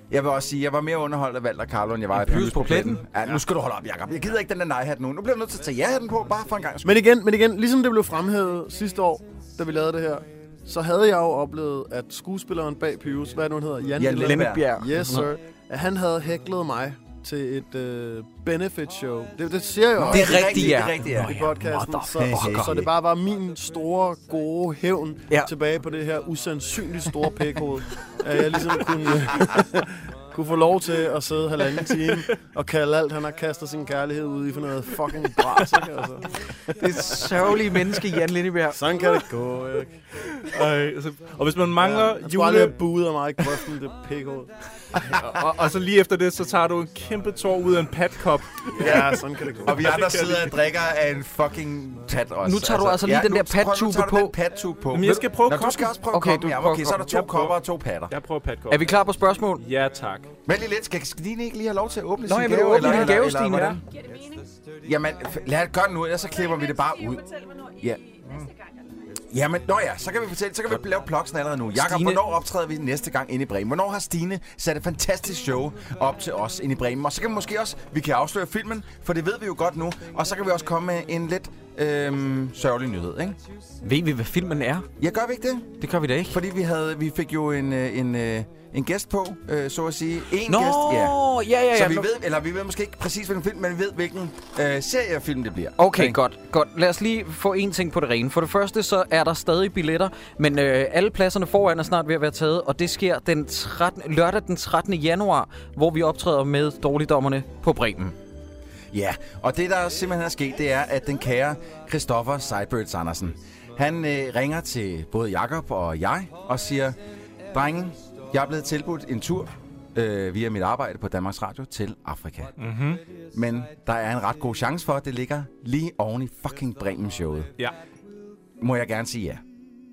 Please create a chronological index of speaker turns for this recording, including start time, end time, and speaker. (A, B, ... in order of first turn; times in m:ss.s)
0:00.1-0:07.0 A
0:02.1-0:03.0 B
0:06.8-0:36.7 C
0:14.0-0:14.8 A
0:14.1-0:15.3 B
0:19.9-0:21.3 A
0:20.1-0:22.9 B
0:22.1-0:22.9 A
0:36.7-0:38.8 B
0:38.7-0:40.0 C
0:40.3-0:42.8 D
0:41.8-0:44.5 C
0:45.1-0:45.4 A
0:45.1-0:50.6 D
0:48.7-0:50.0 C
0:48.8-0:58.1 A
0:52.4-0:54.4 B
0:54.9-0:56.0 D
0:56.1-0:57.2 B
0:57.1-0:57.6 D
0:58.1-0:59.0 D
0:58.7-0:59.6 B
0:59.6-1:00.3 D
1:00.4-1:03.9 A
1:02.2-1:03.8 B
1:02.8-1:03.1 D
1:03.9-1:04.6 E
1:04.8-1:07.2 A
1:06.3-1:09.1 E
1:09.2-1:23.4 A
1:11.7-1:12.2 B
1:23.8-1:24.9 B
1:25.0-1:31.2 A
1:25.8-1:26.4 B
1:30.4-1:32.1 B
1:31.7-1:36.2 A
1:35.8-1:48.1 B
1:48.9-1:57.0 A
1:57.5-2:02.7 A
2:02.6-2:03.0 D
2:03.3-2:07.5 A
2:08.6-2:09.4 A